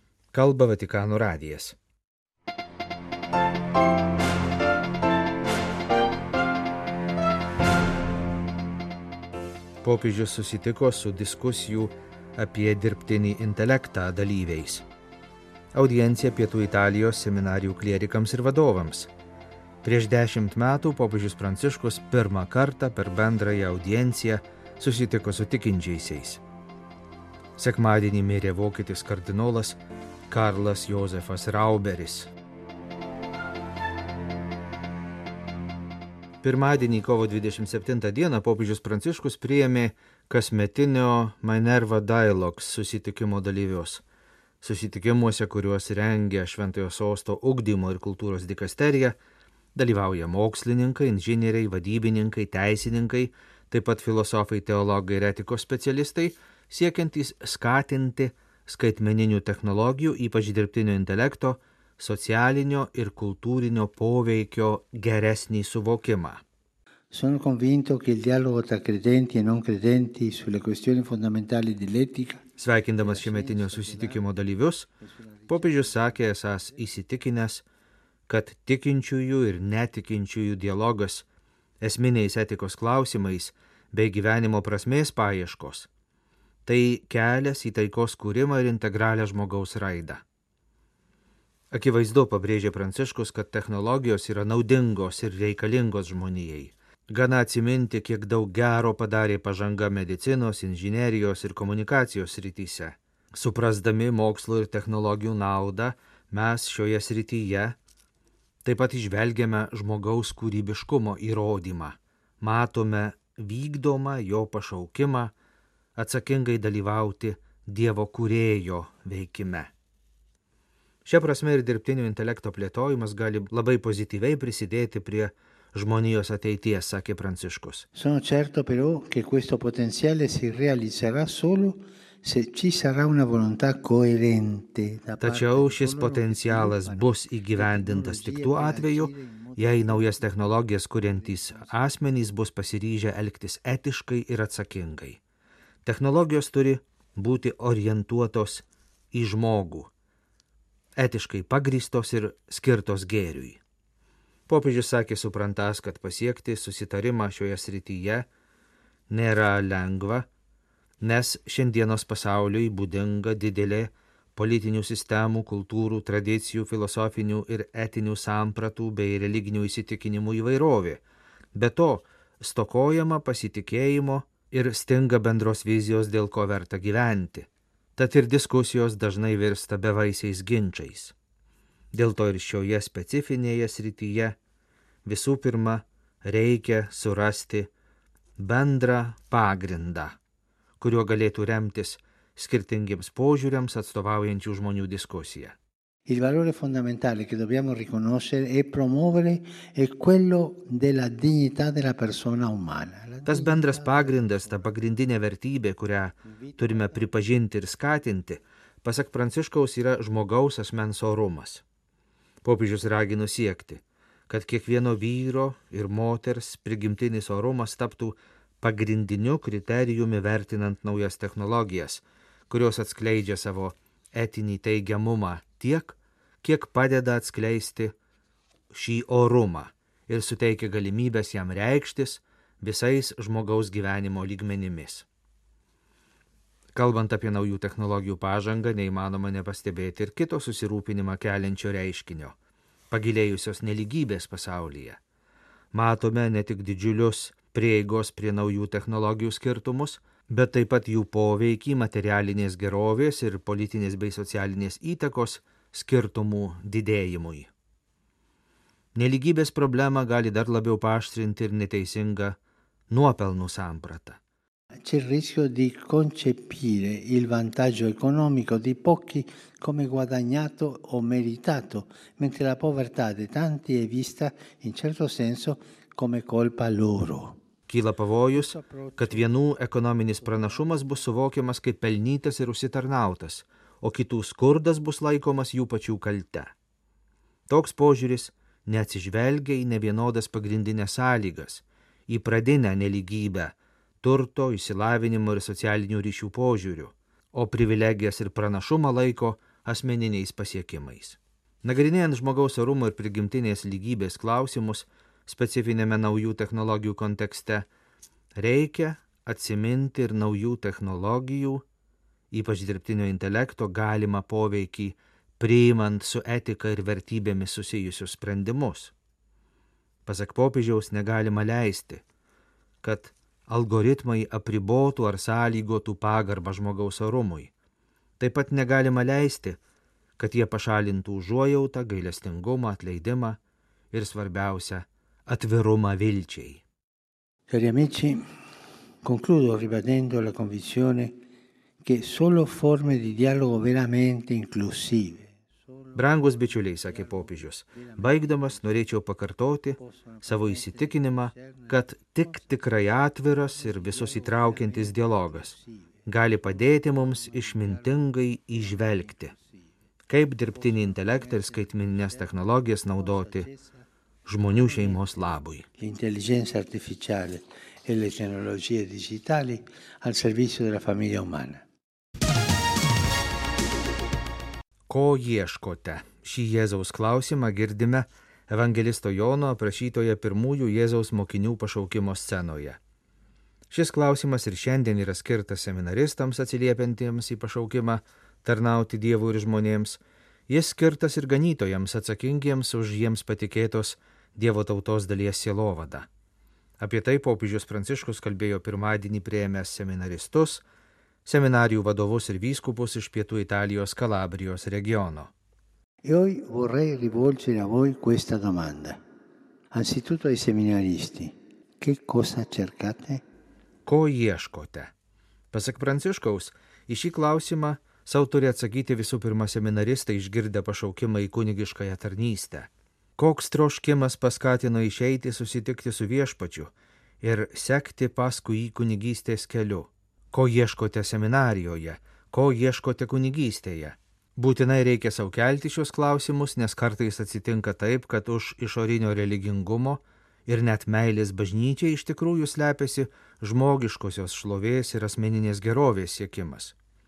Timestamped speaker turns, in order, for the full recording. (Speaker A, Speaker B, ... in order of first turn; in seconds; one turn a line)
Speaker A: 0.3-1.8
Speaker A: 9.8-14.8
Speaker A: 15.7-19.1
Speaker A: 19.8-26.4
Speaker A: 27.6-32.3
Speaker A: 36.4-44.0
Speaker A: 44.6-49.2
Speaker A: 49.8-66.4
Speaker B: 67.1-72.4
Speaker A: 72.6-74.9
Speaker B: 73.0-74.3
Speaker B: 75.0-76.8
Speaker A: 75.5-77.7
Speaker A: 78.3-81.3
Speaker A: 81.8-85.9
Speaker A: 86.7-90.2
Speaker A: 91.7-107.8
Speaker A: 108.7-115.3
Speaker A: 116.0-119.7
Speaker A: 121.0-127.9
Speaker B: 127.9-141.9
Speaker A: 135.2-145.2
Speaker A: 145.8-149.9
Speaker A: 151.0-153.6
Speaker A: 154.5-158.3
Speaker A: 159.1-160.3
Speaker A: 161.0-171.0
Speaker A: 171.5-181.1
Speaker A: 181.9-184.4
Speaker A: 185.1-187.7
Speaker A: 188.4-190.2
Speaker A: 190.8-195.6
Speaker B: 196.1-204.7
Speaker A: 203.3-211.6
Speaker B: 206.2-207.1
Speaker A: 212.4-227.9
Speaker A: 228.7-235.1
Speaker A: 236.7-242.3
Speaker A: 242.9-245.0
Speaker A: 245.7-257.5
Speaker A: 258.9-262.4
Speaker A: 262.9-264.2
Speaker B: 264.8-277.4
Speaker A: 277.7-286.5
Speaker B: 278.3-279.3
Speaker B: 280.2-281.0
Speaker A: 287.5-307.7
Speaker A: 308.4-311.6
Speaker A: 312.3-318.9
Speaker A: 320.1-322.0
Speaker A: 322.8-327.5
Speaker A: 328.2-329.6
Speaker A: 330.2-333.4
Speaker A: 333.9-336.6
Speaker B: 337.5-338.2
Speaker B: 339.0-341.1
Speaker B: 341.8-348.9
Speaker A: 345.9-359.3
Speaker B: 349.8-352.5
Speaker B: 353.5-359.7
Speaker A: 360.1-363.5
Speaker B: 360.5-363.9
Speaker A: 364.2-365.6
Speaker B: 364.4-371.6
Speaker A: 374.9-382.8
Speaker A: 383.7-396.1
Speaker A: 396.8-400.6
Speaker A: 401.2-405.3
Speaker B: 406.1-409.0
Speaker B: 409.7-413.2
Speaker A: 413.9-414.9
Speaker A: 415.5-446.8